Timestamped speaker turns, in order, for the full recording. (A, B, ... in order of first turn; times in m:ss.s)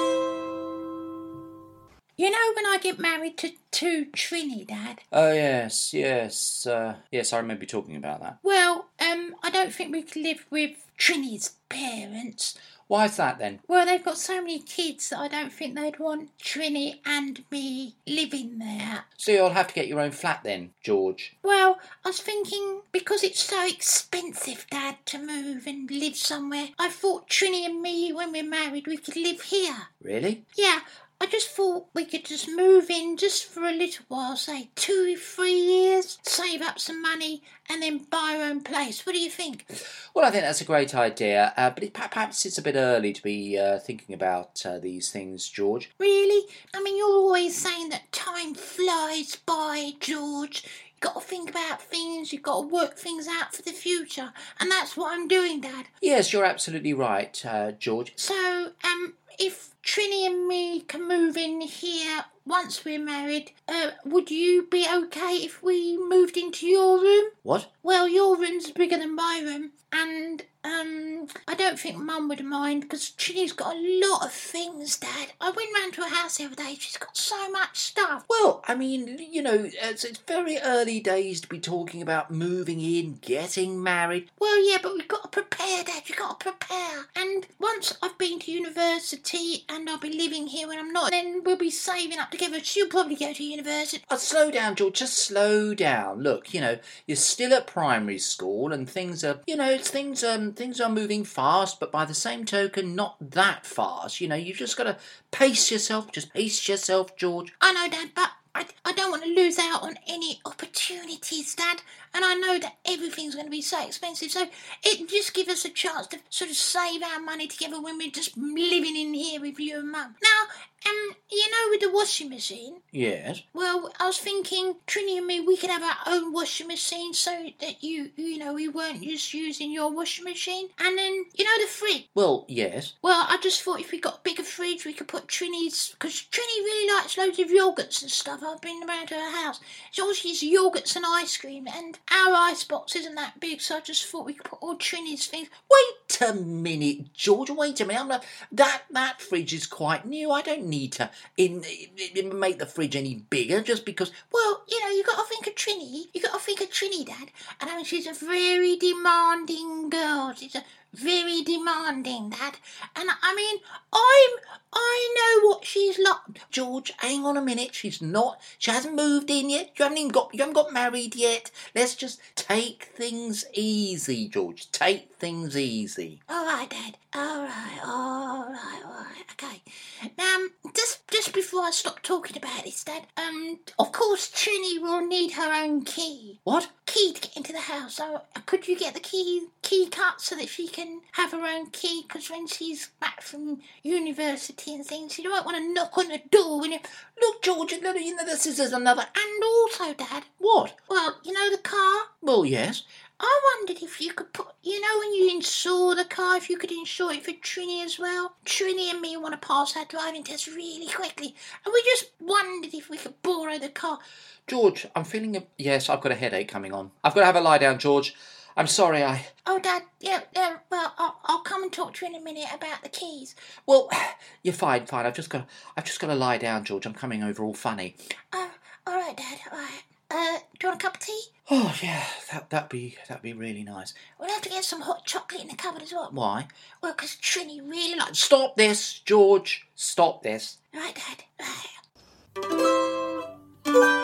0:02.2-0:05.0 A
0:05.1-0:08.4 B
0:08.4-0:12.6 A
0:12.9-0:13.6 B
0:13.7-0:19.0 A
0:19.2-0:21.3 B
0:21.4-0:29.9 A
0:30.0-0:30.4 B
0:30.6-0:39.6 A
0:40.1-0:45.9 B
0:46.0-0:55.9 A
0:56.0-0:58.2 B
0:58.2-1:18.2 A
1:07.4-1:07.7 B
1:18.3-1:24.3 B
1:24.4-1:34.0 A
1:34.1-1:47.5 B
1:47.6-2:02.8 A
2:02.9-2:03.4 B
2:03.5-2:12.1 A
2:12.1-2:12.9 B
2:13.0-2:25.7 A
2:25.7-2:34.3 B
2:34.3-2:46.4 A
2:46.5-2:56.2 B
2:56.3-3:16.8 A
3:06.5-3:06.7 B
3:17.2-3:19.1 B
3:19.1-3:22.1 A
3:20.4-3:20.8 B
3:22.2-3:22.8 B
3:23.2-3:34.0 A
3:34.5-3:39.3 B
3:39.4-3:43.4 A
3:43.7-3:48.0 B
3:48.3-3:51.3 A
3:51.5-3:54.1 B
3:54.1-3:56.1 A
3:56.1-3:56.5 B
3:56.8-3:58.1 A
3:58.1-4:00.6 B
4:00.7-4:01.8 A